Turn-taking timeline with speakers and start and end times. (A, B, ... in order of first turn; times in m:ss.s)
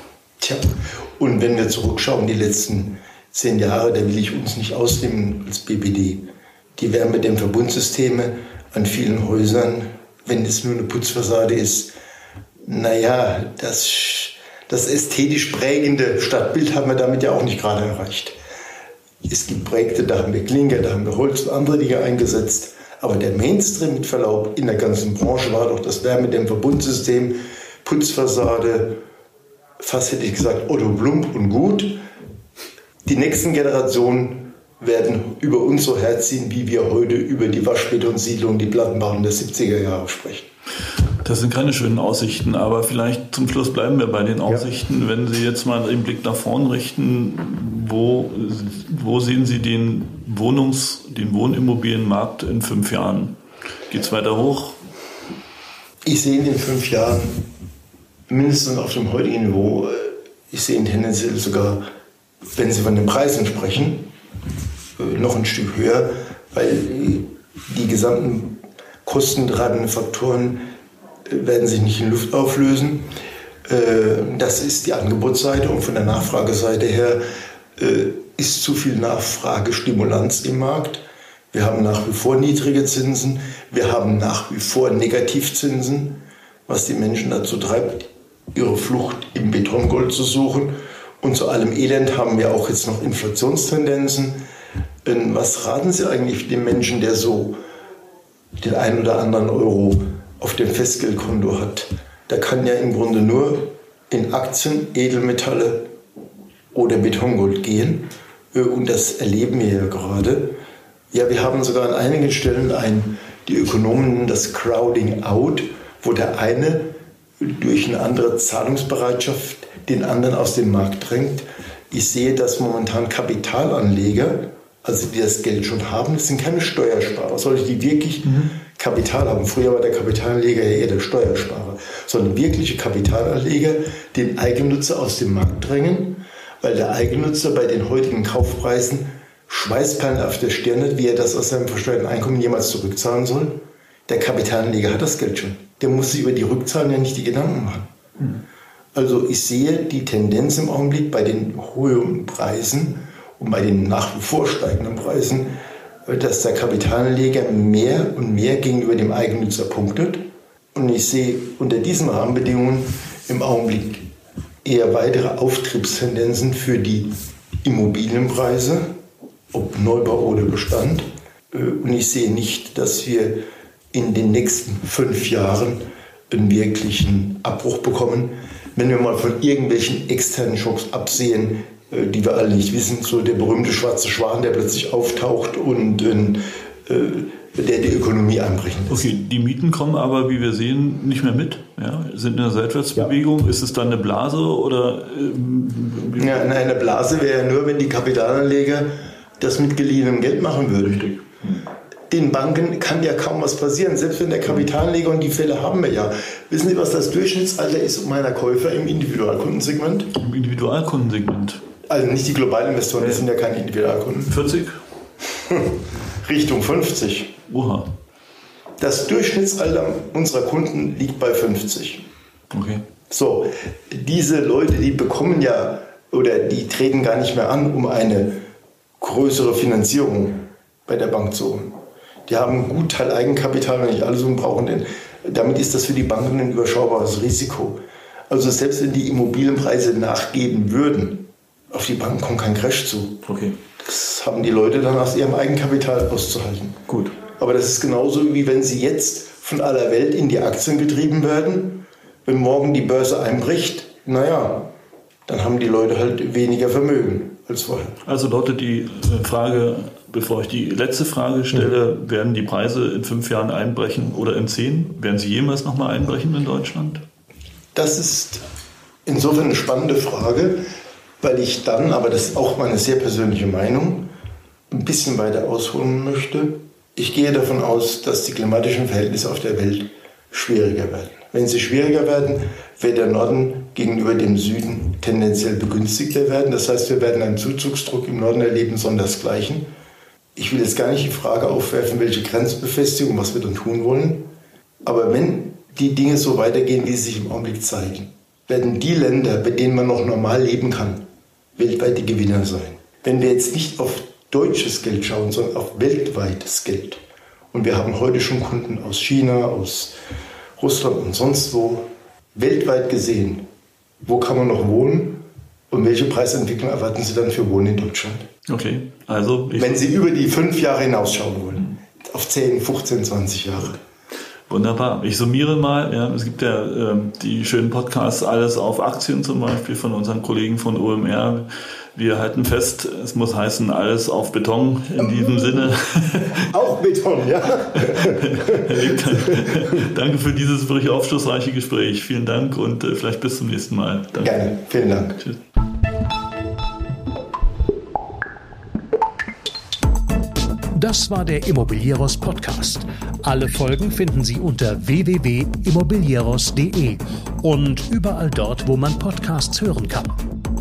0:00.4-0:11.9 A
0:12.6-0:18.4 A
0:19.2-0:29.0 A
0:29.8-0:32.0 A
0:33.0-0:40.5 A
0:41.2-0:53.4 B
0:53.9-0:54.8 B
0:56.0-0:57.5 A
0:58.3-1:01.8 A
1:02.6-1:04.1 A
1:05.0-1:10.7 A
1:11.2-1:13.1 A
1:13.6-1:17.2 A
1:17.8-1:34.4 A
1:35.0-1:37.6 A
1:38.6-1:45.9 A
1:46.7-1:50.6 A
1:51.1-2:28.3 A
2:08.2-2:08.5 B
2:28.9-2:44.1 A
2:44.6-2:48.9 A
2:49.5-3:09.1 A
3:08.9-3:16.5 B
3:16.2-3:21.1 A
3:20.8-3:21.6 B
3:22.1-3:30.1 A
3:30.2-3:31.6 B
3:31.9-3:34.4 A
3:33.0-3:33.2 B
3:34.3-3:34.8 B
3:35.3-3:37.4 A
3:37.5-3:37.9 B
3:38.8-3:42.1 A
3:42.5-3:42.8 B
3:43.1-3:48.4 A
3:49.0-4:03.2 A
4:03.2-4:03.6 B
4:03.8-4:14.7 A
4:06.9-4:07.2 B
4:15.2-4:18.0 A
4:18.0-4:27.0 B
4:27.7-4:28.4 A
4:29.0-4:30.6 A
4:31.2-4:34.1 A
4:34.7-4:49.7 A
4:50.4-4:54.3 A
4:54.8-5:01.0 A
5:01.6-5:10.0 A
5:10.6-5:13.4 A
5:14.0-5:18.3 A
5:18.5-5:19.9 B
5:19.5-5:23.8 A
5:24.5-5:36.5 B
5:36.4-5:39.8 A
5:37.7-5:44.5 B
5:44.2-5:45.2 A
5:50.7-6:00.2 C